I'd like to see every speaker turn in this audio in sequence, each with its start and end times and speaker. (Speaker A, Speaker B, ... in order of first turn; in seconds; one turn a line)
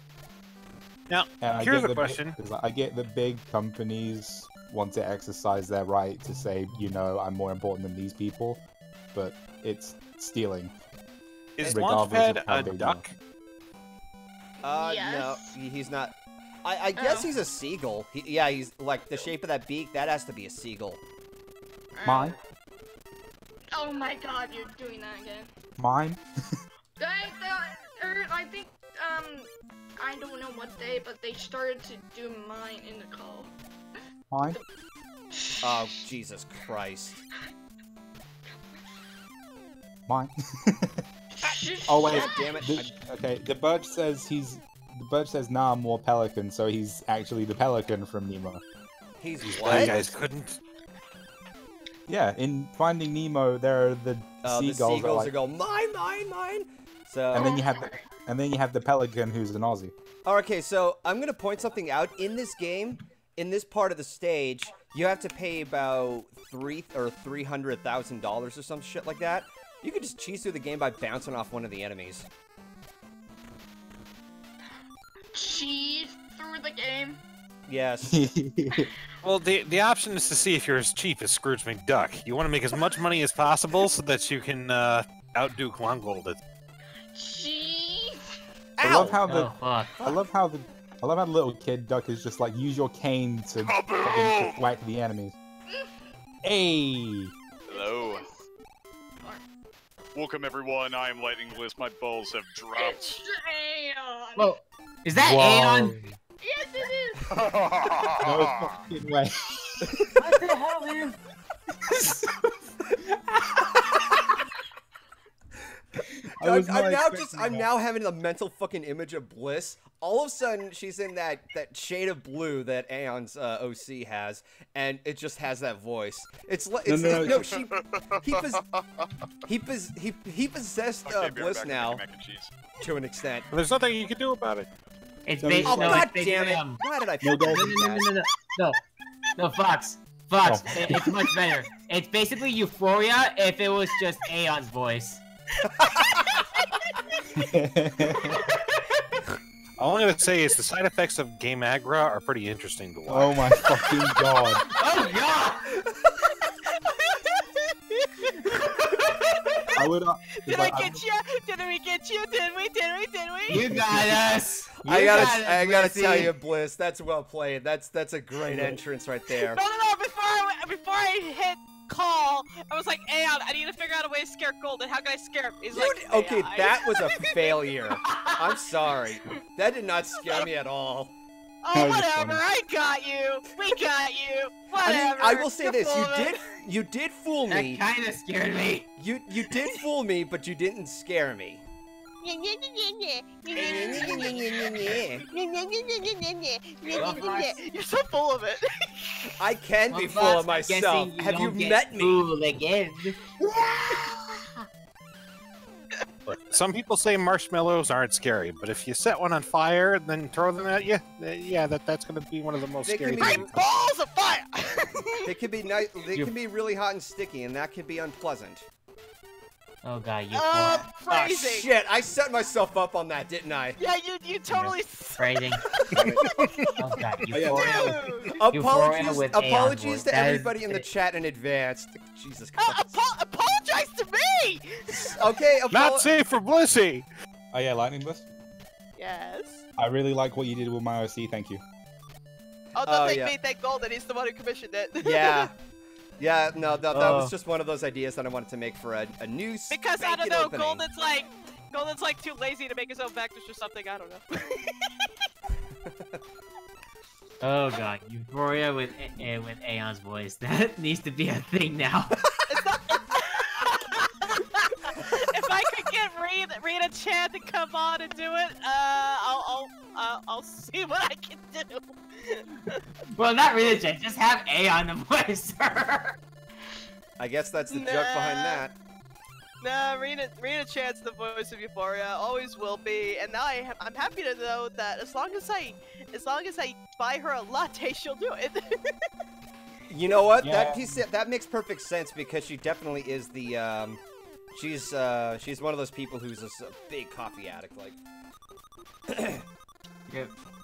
Speaker A: 1.1-2.4
Speaker B: 1.4-8.6
Speaker B: 9.1-10.7
Speaker A: 11.6-13.2
Speaker B: 11.7-13.0
Speaker C: 14.6-21.0
Speaker D: 14.6-15.6
Speaker D: 16.9-17.3
Speaker D: 21.9-22.4
Speaker B: 22.0-22.4
Speaker D: 23.8-25.5
Speaker B: 25.8-26.2
Speaker D: 27.0-33.5
Speaker B: 34.3-34.6
Speaker D: 35.3-36.1
Speaker C: 35.6-37.2
Speaker B: 40.1-41.0
Speaker D: 41.4-42.8
Speaker C: 41.5-42.9
Speaker B: 41.9-48.6
Speaker C: 49.2-50.1
Speaker A: 49.4-50.6
Speaker B: 49.7-50.0
Speaker B: 52.1-55.3
Speaker C: 54.4-57.6
Speaker B: 57.3-59.9
Speaker D: 57.4-57.9
Speaker C: 60.2-72.3
Speaker D: 75.3-77.2
Speaker C: 77.7-78.2
Speaker B: 78.1-78.9
Speaker A: 79.2-86.4
Speaker D: 87.1-88.4
Speaker C: 88.8-89.2
Speaker B: 88.8-95.4
Speaker E: 89.3-90.0
Speaker C: 90.0-90.2
Speaker F: 93.7-94.5
Speaker B: 96.4-97.3
Speaker D: 97.7-98.3
Speaker F: 97.7-98.2
Speaker F: 100.2-103.0
Speaker D: 102.7-104.5
Speaker E: 104.4-106.0
Speaker B: 105.2-106.1
Speaker D: 106.4-107.3
Speaker F: 107.3-108.2
Speaker B: 108.2-109.9
Speaker E: 110.2-111.2
Speaker B: 111.9-112.3
Speaker B: 116.4-117.7
Speaker C: 116.4-128.6
Speaker B: 126.9-127.4
Speaker F: 127.3-128.8
Speaker C: 129.5-132.1
Speaker F: 131.0-132.6
Speaker C: 132.8-133.5
Speaker A: 133.5-134.7
Speaker E: 135.3-136.8
Speaker B: 135.4-136.1
Speaker C: 135.7-138.1
Speaker B: 137.2-137.8
Speaker E: 137.4-138.8
Speaker E: 139.4-145.2
Speaker B: 140.4-141.2
Speaker C: 145.8-146.3
Speaker B: 147.4-148.4
Speaker A: 149.8-153.4
Speaker B: 153.1-154.6
Speaker E: 154.8-155.7
Speaker G: 156.5-159.8
Speaker B: 159.8-161.0
Speaker G: 160.4-163.7
Speaker E: 163.5-166.3
Speaker B: 163.7-164.2
Speaker C: 164.1-169.6
Speaker B: 164.8-165.3
Speaker G: 169.3-177.8
Speaker C: 175.7-181.2
Speaker E: 178.0-178.3
Speaker G: 180.2-180.5
Speaker G: 181.6-186.4
Speaker B: 181.7-182.5
Speaker C: 184.8-187.8
Speaker E: 187.5-188.9
Speaker C: 189.0-191.7
Speaker G: 192.2-199.3
Speaker C: 193.5-195.2
Speaker E: 193.6-194.2
Speaker E: 197.0-197.6
Speaker C: 199.4-202.2
Speaker E: 199.9-203.3
Speaker G: 203.5-204.1
Speaker E: 203.9-204.3
Speaker A: 206.3-213.7
Speaker C: 212.8-213.5
Speaker G: 213.3-215.3
Speaker C: 215.2-218.7
Speaker E: 219.8-220.9
Speaker G: 220.3-221.7
Speaker C: 221.1-223.8
Speaker G: 223.8-226.1
Speaker E: 224.5-225.6
Speaker B: 225.9-226.2
Speaker C: 226.2-226.6
Speaker E: 226.8-227.9
Speaker B: 227.3-228.3
Speaker G: 227.4-228.4
Speaker C: 228.4-233.0
Speaker E: 228.5-230.9
Speaker G: 232.6-235.2
Speaker C: 234.9-236.1
Speaker A: 235.7-237.1
Speaker B: 237.5-238.3
Speaker G: 239.0-239.6
Speaker B: 239.8-241.6
Speaker G: 242.8-245.5
Speaker C: 242.8-243.3
Speaker C: 245.0-245.5
Speaker C: 246.2-250.8
Speaker E: 246.9-247.3
Speaker G: 249.7-255.1
Speaker E: 257.4-262.1
Speaker G: 262.5-264.3
Speaker G: 264.9-272.8
Speaker E: 273.1-276.2
Speaker C: 277.2-278.8
Speaker G: 277.7-278.7
Speaker G: 279.6-289.0
Speaker C: 289.9-294.0
Speaker B: 290.4-291.0
Speaker C: 294.5-298.0
Speaker C: 299.1-299.4
Speaker E: 300.1-300.3